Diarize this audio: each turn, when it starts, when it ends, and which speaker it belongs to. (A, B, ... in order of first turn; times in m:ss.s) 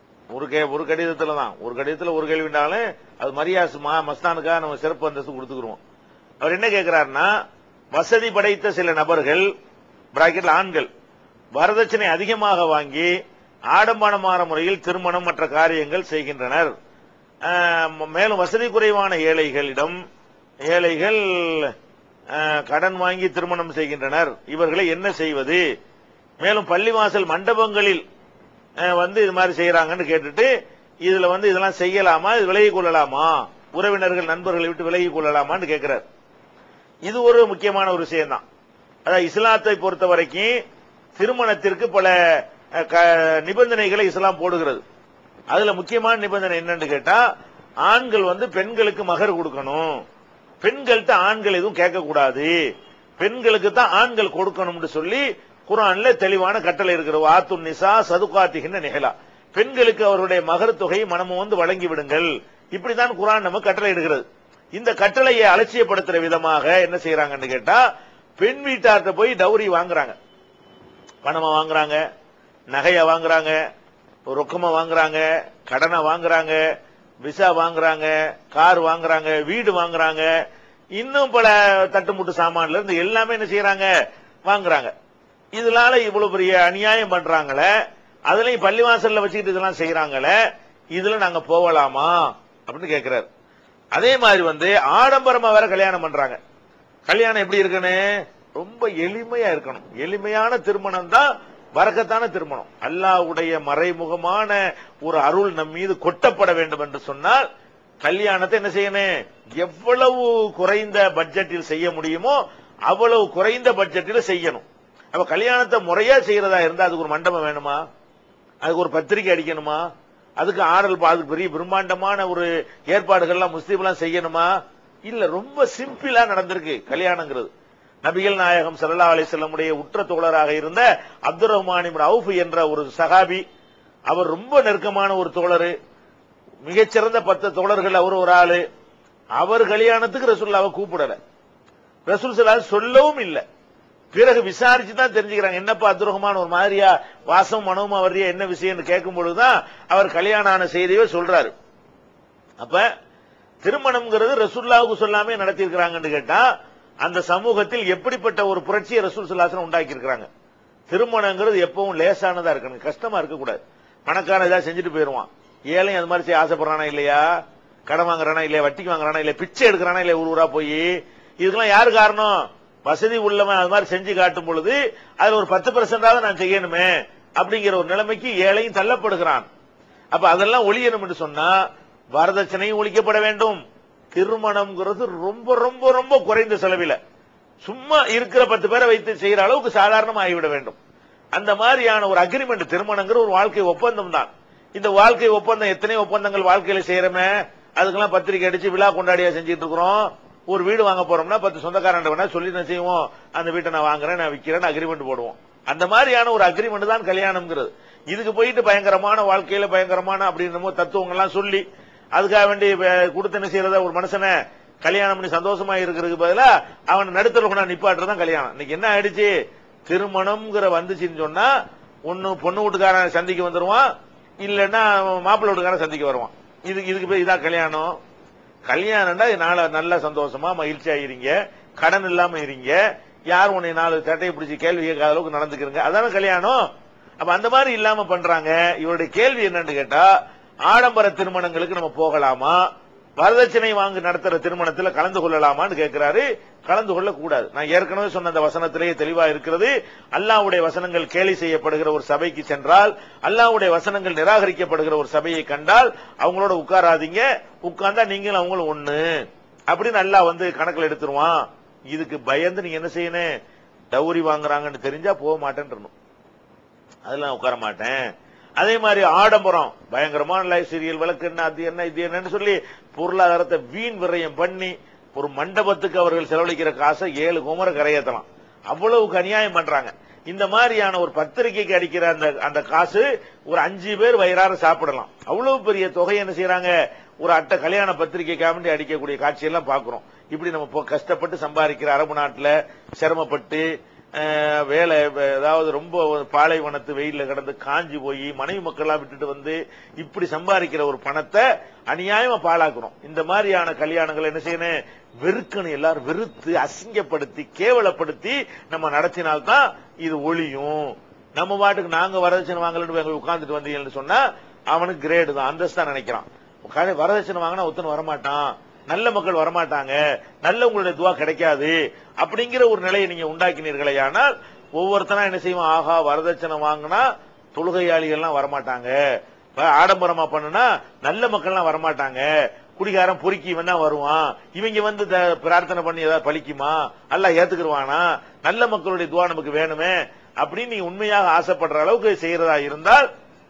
0:00.3-0:05.8 A
0:06.4-0:07.3 A
0:07.9-0:09.5 A
0:10.1-0:10.9 A
0:11.6-0:13.1 A
0:13.7-0:16.7 A
0:17.4-0:20.0 A
0:20.7-0:21.7 A
0:22.3-0:25.6 A
0:26.4-0:28.0 A
0:28.8-0:30.5 A
0:31.0-0:36.0 A
0:37.1-0:38.4 A
0:39.0-0:40.5 A
0:41.2-0:44.8 A
0:45.5-0:47.2 A
0:47.8-0:50.0 A
0:50.6-0:52.5 A
0:53.2-1:04.2 A
1:04.7-1:07.8 A
1:08.4-1:10.2 A
1:11.2-1:12.0 A
1:12.7-1:13.6 A
1:14.3-1:16.6 A
1:17.2-1:20.3 A
1:21.0-1:23.9 A
1:24.4-1:24.9 A
1:25.6-1:27.7 A
1:28.3-1:30.3 A
1:30.9-1:33.2 A
1:33.9-1:36.4 A
1:37.1-1:47.4 A
1:48.0-1:49.1 A
1:49.6-1:57.8 A
1:58.6-1:59.8 A
2:00.4-2:04.5 A
2:05.1-2:07.5 A
2:08.0-2:13.4 A
2:14.1-2:15.7 A
2:16.6-2:18.6 A
2:19.4-2:21.2 A
2:22.1-2:23.4 A
2:24.1-2:31.5 A
2:32.6-2:32.9 A
2:33.6-2:36.4 A
2:37.0-2:40.3 A
2:40.9-2:47.2 A
2:47.9-2:50.9 A
2:51.4-2:59.5 A
3:00.1-3:01.5 A
3:02.1-3:03.6 A
3:04.1-3:07.0 A
3:07.6-3:10.8 A
3:11.3-3:31.6 A
3:32.1-3:39.3 A
3:39.9-3:41.5 A
3:42.1-3:43.9 A
3:44.4-3:48.0 A
3:48.7-3:52.8 A
3:53.3-3:56.6 A
3:57.2-4:00.1 A
4:00.7-4:02.6 A
4:03.2-4:19.0 A
4:19.7-4:23.3 A
4:23.9-4:25.9 A
4:27.0-4:28.0 A
4:28.6-5:29.0 A
5:29.6-5:43.0 A